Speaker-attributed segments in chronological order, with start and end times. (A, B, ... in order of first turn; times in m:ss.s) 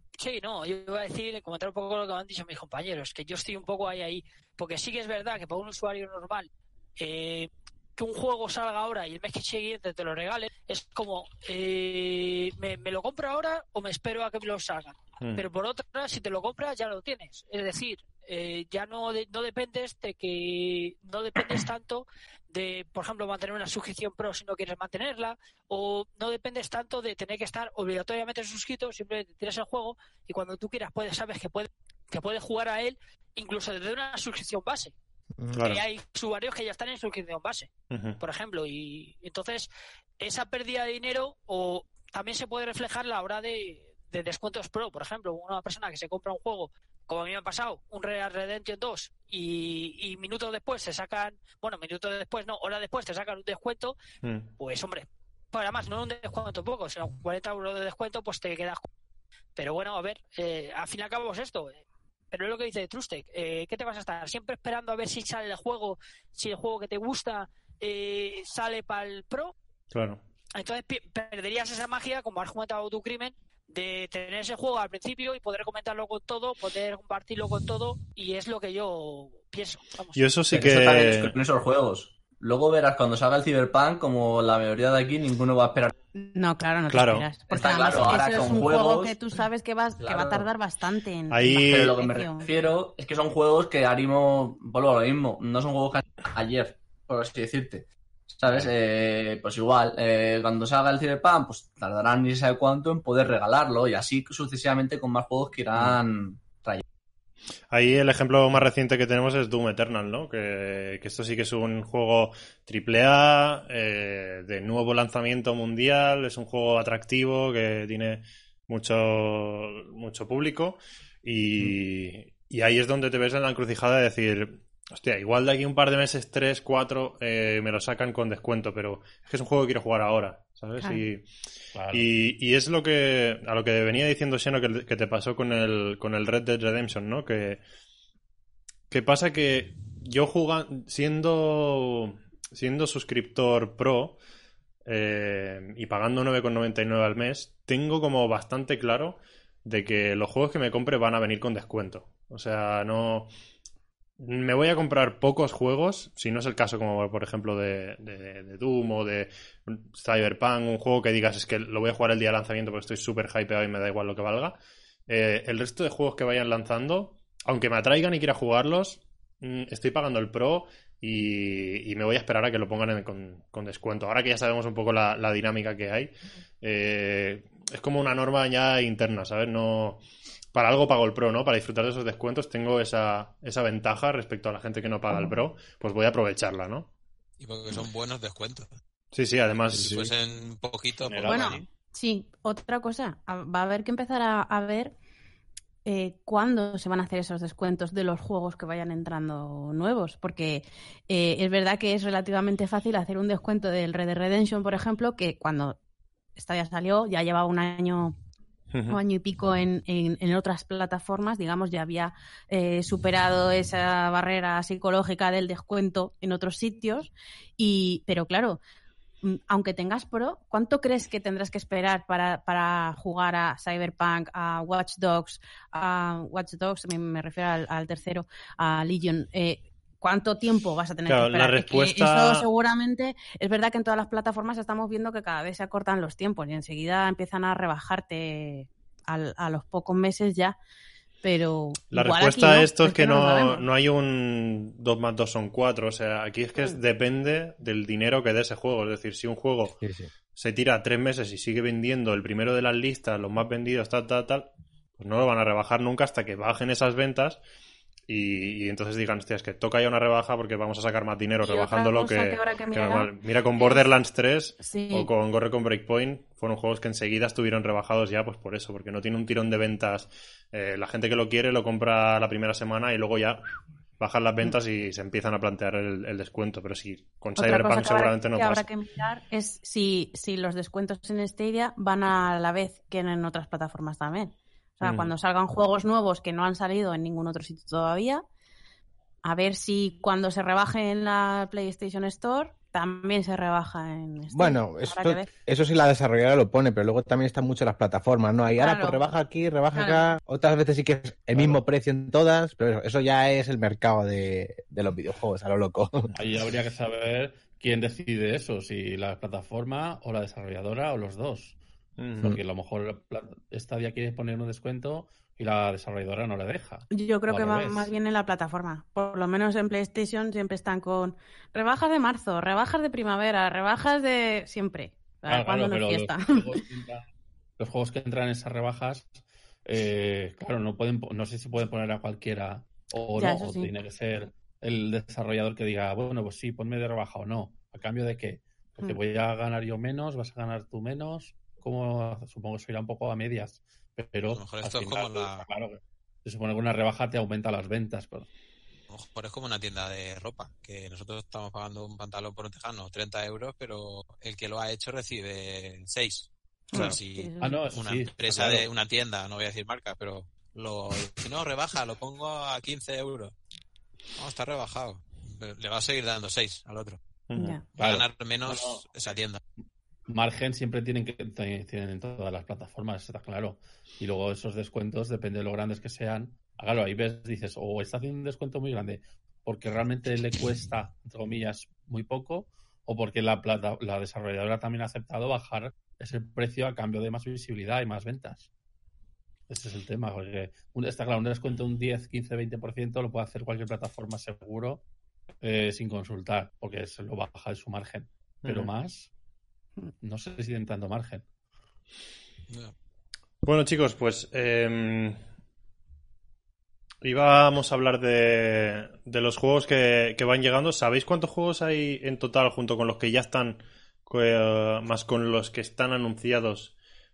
0:00.2-0:34.9 A
0:35.5-0:35.8 B
0:35.6-0:37.7 A
0:37.9-0:38.2 B
0:38.2-0:39.7 A
0:40.2-0:54.0 A
0:54.2-0:54.5 B
0:54.6-0:58.9 A
0:59.6-1:09.5 A
1:09.9-1:10.2 B
1:10.6-1:20.4 A
1:20.2-1:21.3 B
1:20.5-1:25.9 C
1:26.2-1:32.5 D
1:26.9-1:27.3 B
1:27.5-1:29.2 C
1:27.9-1:28.2 B
1:30.0-1:30.5 C
1:31.3-1:32.0 B
1:31.6-1:46.8 C
1:47.7-2:11.3 B
2:11.8-2:12.1 E
2:11.9-2:17.6 B
2:18.9-2:24.2 B
2:24.9-2:33.3 B
2:34.2-2:44.6 B
2:45.1-2:56.1 B
2:56.6-3:00.0 B
3:00.5-3:06.9 B
3:07.4-3:08.8 F
3:09.1-3:10.1 B
3:09.7-3:11.7 F
3:11.1-3:11.6 E
3:11.3-3:15.0 D
3:15.8-3:25.8 D
3:26.4-3:28.2 D
3:28.7-3:29.0 B
3:28.9-3:38.6 D
3:39.2-4:00.6 D
3:51.1-3:52.4 B
4:01.2-4:03.7 D
4:01.9-4:09.8 B
4:09.8-4:10.1 G
4:10.4-4:17.4 B
4:18.1-4:33.4 B
4:21.4-4:23.9 D
4:24.6-4:25.1 D
4:34.0-4:38.6 B
4:37.4-4:48.2 D
4:44.8-4:45.1 B
4:49.2-4:55.3 D
4:54.3-5:06.1 G
4:58.6-4:59.0 D
4:59.8-5:00.1 D
5:01.3-5:01.6 E
5:06.2-5:11.6 E
5:12.0-5:12.3 B
5:12.2-5:17.9 E
5:16.9-5:26.5 D
5:25.3-5:27.1 E
5:27.6-5:48.3 E
5:33.2-5:33.7 D
5:44.3-5:45.5 F
5:48.9-6:03.3 F
5:56.7-5:57.6 D
5:57.4-5:58.7 E
6:04.2-6:07.0 F
6:07.3-6:07.6 B
6:07.3-6:07.6 D
6:07.8-6:09.4 F
6:07.8-6:08.8 E
6:10.1-6:28.5 E
6:29.5-6:34.8 E
6:35.4-6:39.1 E
6:38.4-6:38.7 B
6:40.0-6:41.3 E
6:42.5-6:42.7 F
6:43.4-6:45.2 B
6:47.0-6:56.7 B